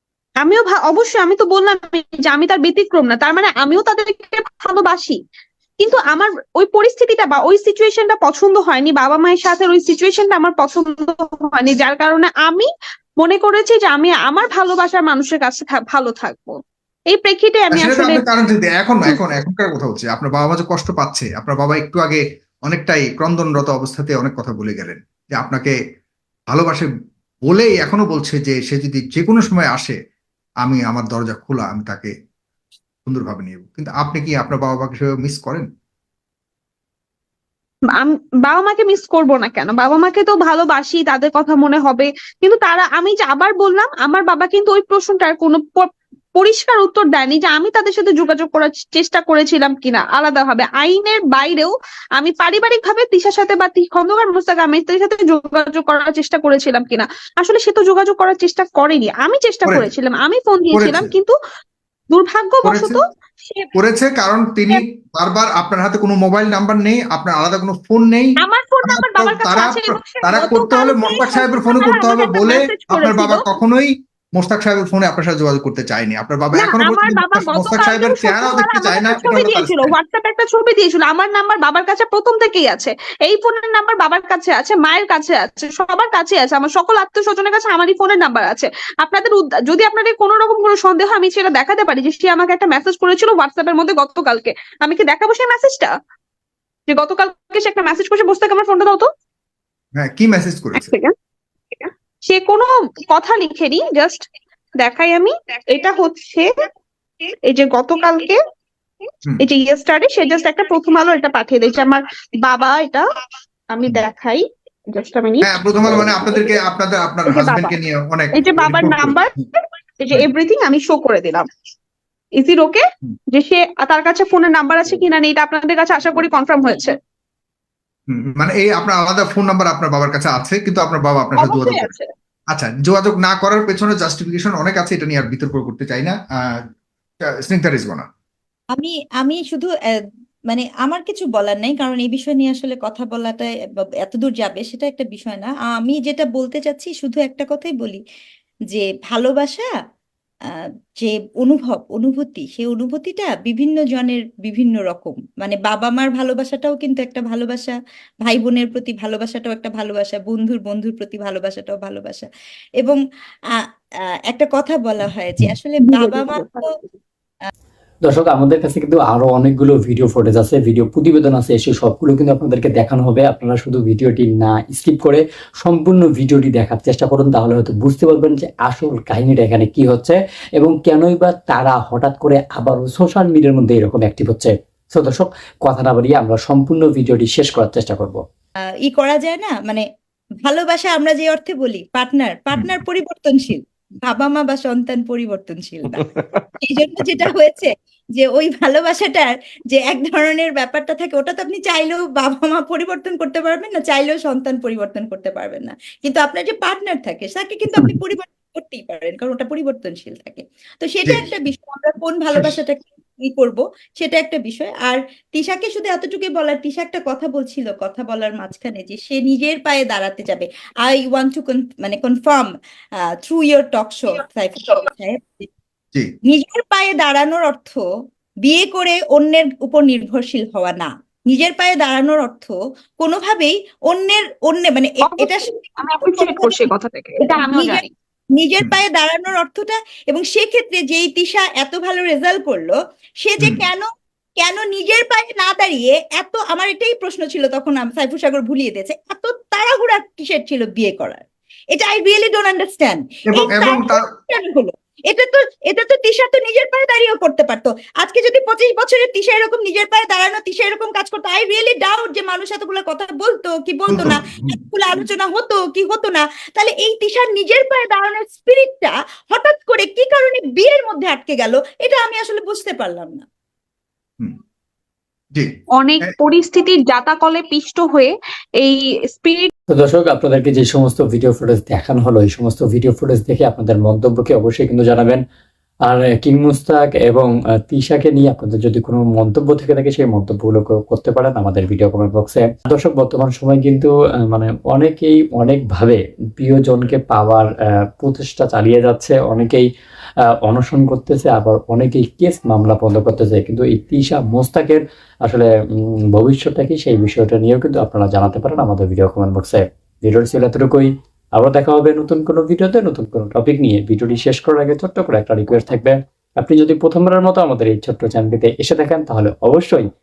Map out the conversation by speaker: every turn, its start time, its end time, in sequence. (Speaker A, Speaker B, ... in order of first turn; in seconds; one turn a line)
Speaker A: 0.4-5.2
Speaker A: 5.8-12.7
Speaker A: 13.2-16.6
Speaker A: 17.1-18.2
Speaker B: 17.7-25.7
Speaker A: 19.1-19.4
Speaker B: 26.5-26.9
Speaker B: 27.4-29.9
Speaker B: 30.6-32.1
Speaker B: 33.0-35.6
Speaker A: 38.0-61.3
Speaker B: 60.7-61.1
Speaker A: 62.1-63.7
Speaker B: 62.6-63.0
Speaker B: 63.8-68.3
Speaker A: 68.4-73.4
Speaker B: 68.8-79.9
Speaker A: 76.5-95.9
Speaker A: 96.9-99.1
Speaker B: 100.0-100.9
Speaker A: 100.8-101.1
Speaker A: 101.7-104.3
Speaker A: 104.8-106.5
Speaker A: 107.5-108.4
Speaker A: 109.4-113.0
Speaker A: 113.7-114.4
Speaker A: 114.9-116.6
Speaker B: 115.4-119.4
Speaker A: 117.3-117.7
Speaker A: 118.4-119.3
Speaker A: 120.0-121.5
Speaker A: 122.4-126.9
Speaker B: 128.1-131.9
Speaker A: 131.4-132.1
Speaker B: 132.5-136.2
Speaker B: 137.4-138.0
Speaker C: 138.7-139.7
Speaker C: 140.5-143.5
Speaker C: 144.0-148.0
Speaker C: 148.7-149.7
Speaker C: 151.0-162.3
Speaker C: 164.3-166.7
Speaker A: 165.8-166.7
Speaker D: 168.0-188.2
Speaker C: 188.8-189.8
Speaker C: 190.4-196.0
Speaker C: 196.6-222.5
Speaker C: 223.2-225.5
Speaker C: 226.2-227.8
Speaker C: 228.4-236.7
Speaker A: 235.0-237.9
Speaker C: 237.2-243.8
Speaker B: 243.4-243.6
Speaker C: 244.4-251.2
Speaker C: 251.7-273.2
Speaker B: 253.3-254.0
Speaker B: 263.9-264.5
Speaker A: 275.8-279.5
Speaker D: 279.7-285.2
Speaker D: 285.9-297.5
Speaker D: 298.0-299.6
Speaker D: 300.4-305.5
Speaker D: 306.1-319.9